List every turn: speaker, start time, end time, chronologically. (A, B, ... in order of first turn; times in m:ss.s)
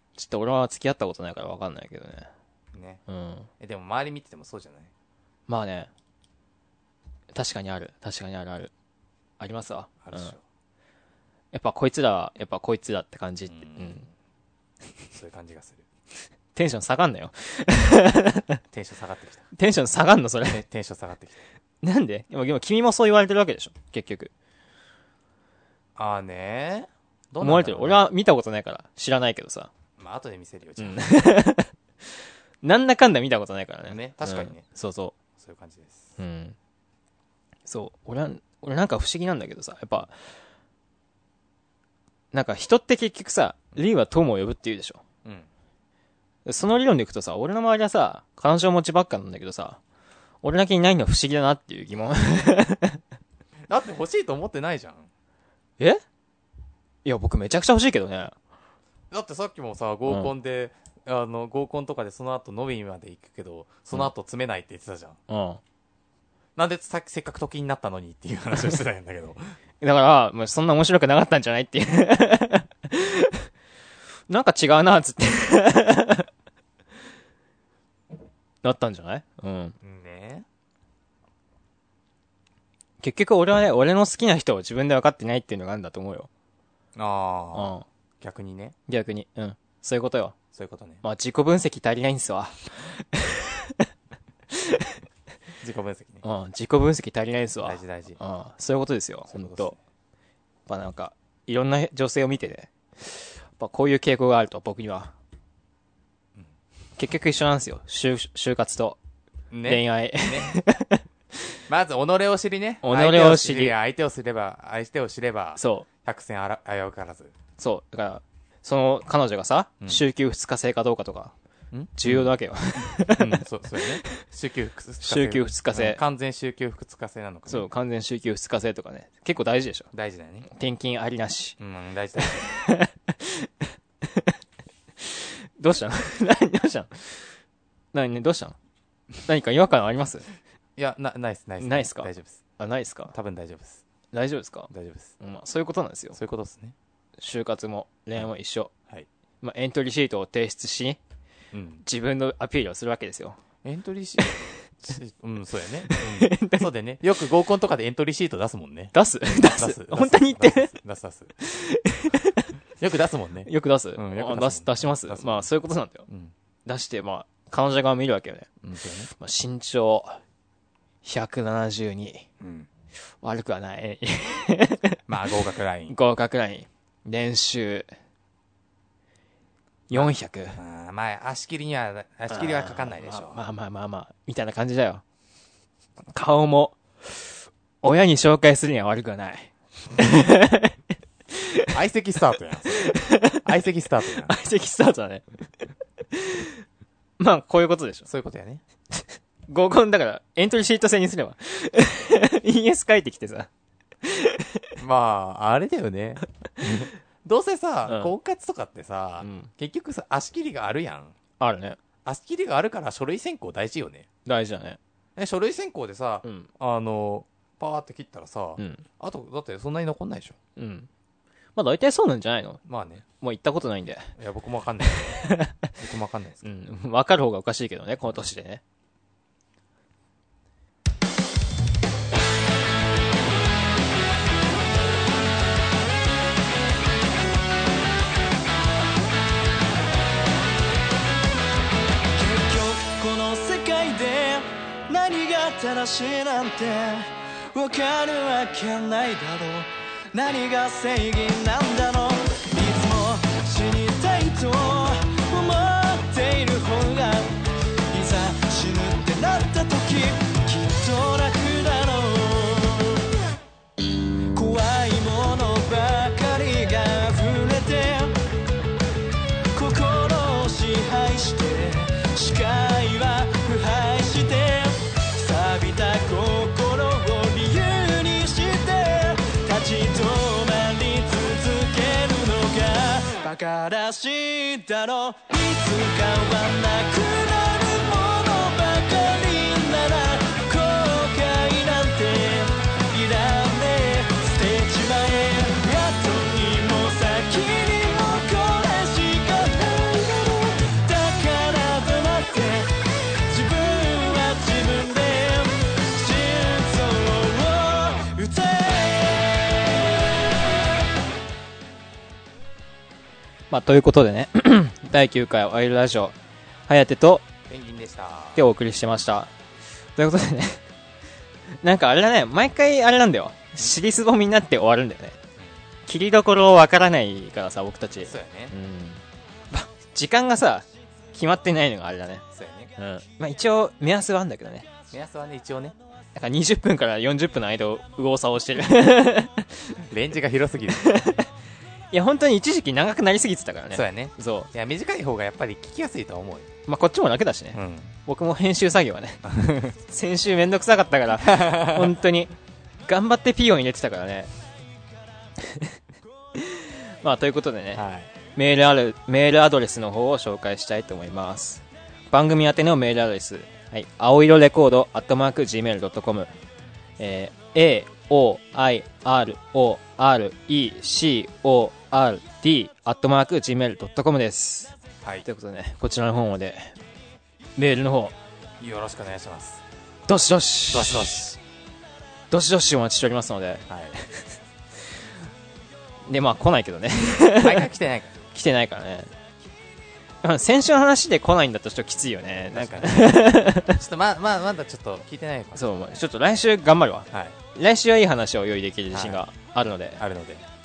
0:00.2-0:02.3 A
0:02.7-0:03.0 B
0:03.1-0:03.5 A
0:03.6-0:04.9 B
0:05.5-0:05.9 A
0:07.3-0:08.7 A
0:09.4-0:10.3 A
0:10.0-0:10.4 B
0:11.5-0:14.0 A
0:13.5-0:14.0 B
0:15.1-0:15.8 B
0:16.6-0:18.6 A
0:18.7-0:19.5 B
0:19.6-0:20.6 A
0:20.5-0:21.4 B
0:21.8-0:24.3 A
0:26.0-0:28.0 B
0:27.4-0:29.7 A
0:30.0-0:31.2 B
0:30.8-0:31.7 A
0:32.6-0:35.1 A
0:33.9-0:34.6 B
0:35.4-0:36.2 B
0:36.2-0:36.6 A
0:37.7-0:40.1 A
0:42.3-0:45.0 A
0:45.2-0:45.5 B
0:46.4-0:49.8 A
0:50.4-0:53.0 A
0:53.7-0:55.1 B
0:57.0-0:58.3 A
0:59.1-1:05.2 B
1:05.3-1:05.6 A
1:06.6-1:09.5 B
1:09.8-1:13.4 A
1:14.3-1:16.3 A
1:18.6-1:19.7 A
1:19.8-1:20.4 B
1:23.0-1:26.3 A
1:27.0-1:28.8 B
1:27.5-1:27.8 A
1:28.9-1:30.4 A
1:30.5-1:31.0 B
1:31.0-1:33.9 A
1:34.5-1:35.0 A
1:35.6-1:36.2 B
1:36.2-1:39.7 A
1:37.6-1:38.2 B
1:39.3-1:39.8 B
1:40.7-1:45.1 A
1:47.0-1:49.0 A
1:49.5-1:50.6 B
1:49.7-1:51.0 A
1:51.7-1:57.3 B
1:52.8-1:53.7 A
1:55.6-1:55.9 A
1:57.6-2:01.3 A
1:59.8-2:00.0 B
2:01.7-2:02.3 B
2:02.0-2:04.2 A
2:03.0-2:07.7 B
2:05.0-2:06.0 A
2:07.5-2:09.9 A
2:09.9-2:10.5 B
2:10.5-2:11.6 A
2:11.6-2:12.5 B
2:12.2-2:13.5 A
2:14.0-2:14.3 A
2:15.0-2:17.2 A
2:17.9-2:18.6 A
2:19.2-2:20.3 A
2:20.8-2:22.4 B
2:21.6-2:23.1 A
2:23.1-2:23.8 B
2:24.1-2:26.2 A
2:24.7-2:25.1 B
2:26.1-2:26.7 B
2:27.2-2:28.7 A
2:29.4-2:31.0 A
2:31.5-2:31.8 B
2:31.8-2:33.4 A
2:33.6-2:41.3 B
2:35.9-2:36.7 A
2:38.9-2:40.7 A
2:41.4-2:42.5 A
2:42.8-2:45.5 B
2:43.4-2:46.0 A
2:46.1-2:46.3 B
2:46.7-2:48.5 A
2:48.6-2:49.1 B
2:49.1-2:50.2 A
2:51.0-2:52.3 A
2:52.4-2:52.7 B
2:53.2-2:55.0 A
2:55.1-2:56.0 B
2:55.9-2:57.9 A
2:59.9-3:00.6 A
2:59.9-3:03.4 B
3:02.3-3:05.0 A
3:06.1-3:10.8 A
3:11.3-3:11.7 A
3:11.7-3:14.4 B
3:12.8-3:13.4 A
3:14.3-3:15.3 A
3:16.1-3:16.5 A
3:17.2-3:18.1 A
3:18.1-3:18.6 B
3:19.0-3:23.5 A
3:24.0-3:24.7 A
3:24.8-3:31.1 B
3:27.9-3:28.1 A
3:29.2-3:29.5 A
3:31.4-3:31.8 A
3:32.0-3:34.1 B
3:34.3-3:34.8 A
3:35.2-3:40.4 B
3:38.6-3:38.8 A
3:40.6-3:40.9 A
3:41.6-3:42.6 A
3:42.7-3:43.0 B
3:43.2-3:44.1 A
3:44.2-3:45.3 B
3:45.2-3:45.6 A
3:45.8-3:46.5 B
3:46.4-3:48.6 A
4:02.1-4:17.4 C
4:17.9-4:23.0 C
4:24.3-4:28.1 C
4:29.5-5:02.8 C
5:03.3-5:10.3 C
5:13.5-5:16.2 A
5:16.7-5:17.3 A
5:17.5-5:18.4 B
5:18.4-5:19.3 A
5:20.0-5:20.6 A
5:21.6-5:25.2 A
5:25.9-5:32.2 A
5:28.0-5:28.6 B
5:32.3-5:32.7 B
5:32.8-5:34.7 A
5:34.9-5:35.8 B
5:36.2-5:39.8 A
5:39.9-5:41.1 B
5:40.8-5:41.3 A
5:41.9-5:44.5 A
5:43.7-5:46.5 B
5:46.7-5:49.2 A
5:47.5-5:47.9 B
5:49.2-5:49.7 B
5:49.8-5:52.3 A
5:51.2-5:51.9 B
5:52.8-5:54.3 A
5:56.4-5:57.8 A
5:57.7-5:58.1 B
5:58.3-6:06.3 A
6:07.0-6:14.7 A
6:15.2-6:16.8 A
6:17.6-6:18.1 A
6:18.6-6:19.6 B
6:20.1-6:21.3 A
6:20.7-6:21.4 B
6:22.3-6:24.2 A
6:23.7-6:24.0 B
6:26.1-6:27.7 A
6:27.3-6:28.3 B
6:28.3-6:29.1 A
6:30.2-6:33.8 A
6:32.5-6:35.6 B
6:35.6-6:40.0 A
6:37.1-6:37.4 B
6:38.9-6:39.2 B
6:40.0-6:40.4 B